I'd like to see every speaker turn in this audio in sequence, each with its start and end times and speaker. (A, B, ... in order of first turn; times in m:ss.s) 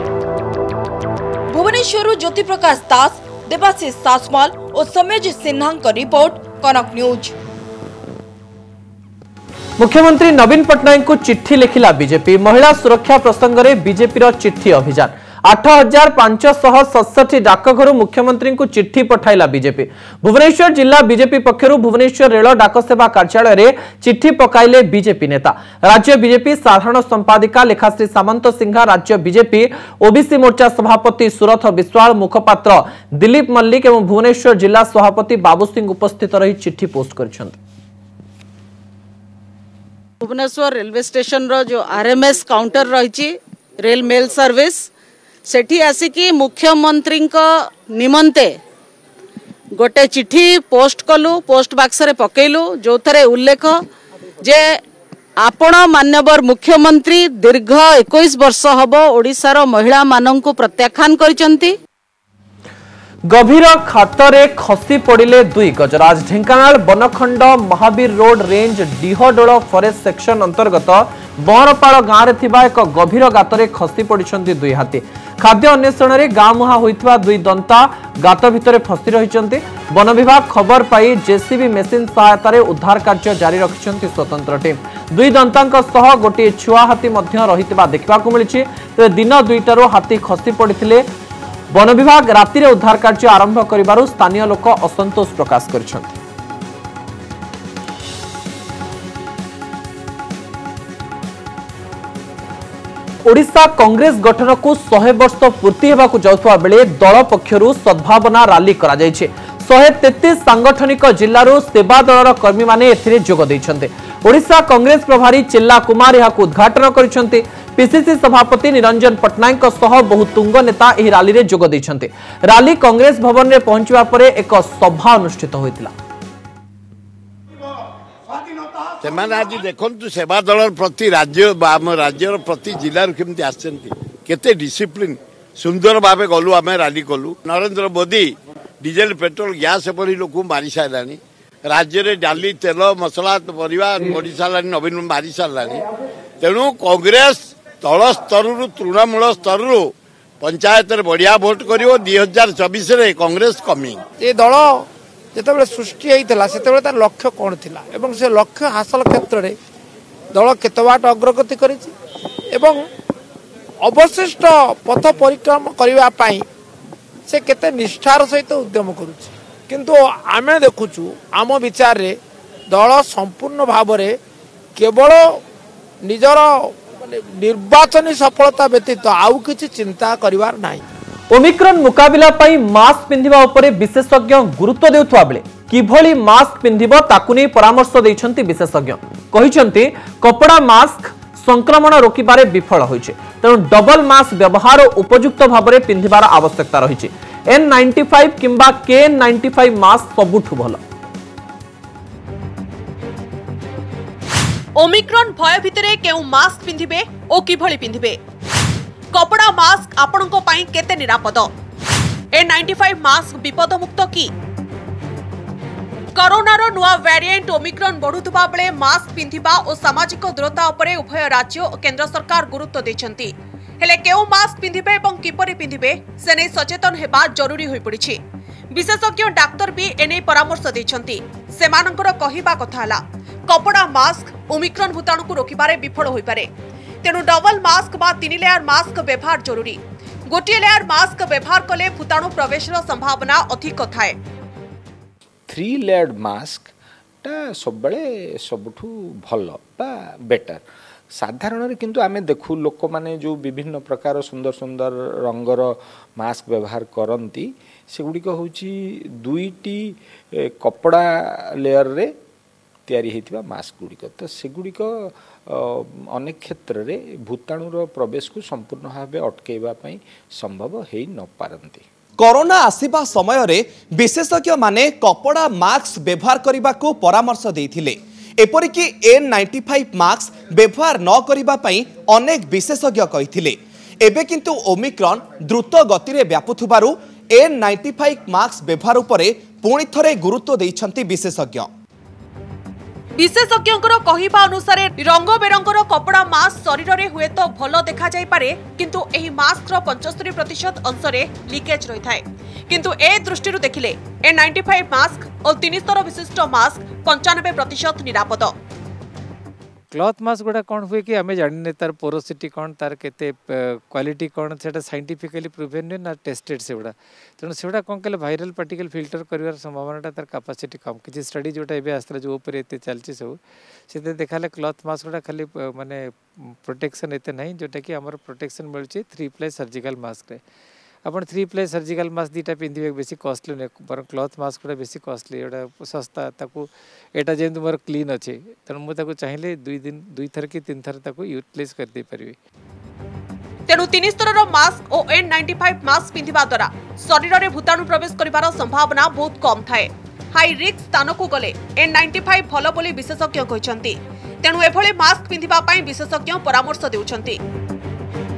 0:01.5-0:07.3 A
0:09.8-0:37.6 B
0:40.2-0:44.9 C
0:45.5-0:48.6 C
0:49.8-0:53.8 C
0:54.4-0:54.8 C
0:55.4-1:01.8 C
1:03.3-1:31.0 B
1:31.7-1:36.2 B
1:43.2-2:05.9 B
2:09.0-2:18.3 D
2:18.8-2:21.2 D
2:21.7-2:25.8 D
2:26.4-2:34.0 D
2:34.2-2:34.8 E
2:35.4-2:39.5 E
2:40.4-2:41.9 E
2:43.8-2:46.4 E
2:47.3-2:52.1 E
2:52.7-2:54.1 E
2:54.8-2:55.2 E
2:56.1-2:56.5 E
2:57.1-3:00.8 E
3:01.3-3:20.8 B
3:24.8-3:28.2 F
3:29.1-3:31.5 F
3:32.4-3:34.3 F
3:36.2-3:48.2 F
3:48.7-3:56.5 F
3:57.0-4:04.2 F
4:05.5-4:06.7 G
4:07.2-4:10.6 G
4:11.2-4:21.1 G
4:21.6-4:22.1 G
4:22.9-4:31.8 G
4:32.2-4:51.7 H
4:53.2-5:08.5 F
5:09.9-5:30.4 I
5:31.0-5:42.4 I
5:43.7-5:57.4 F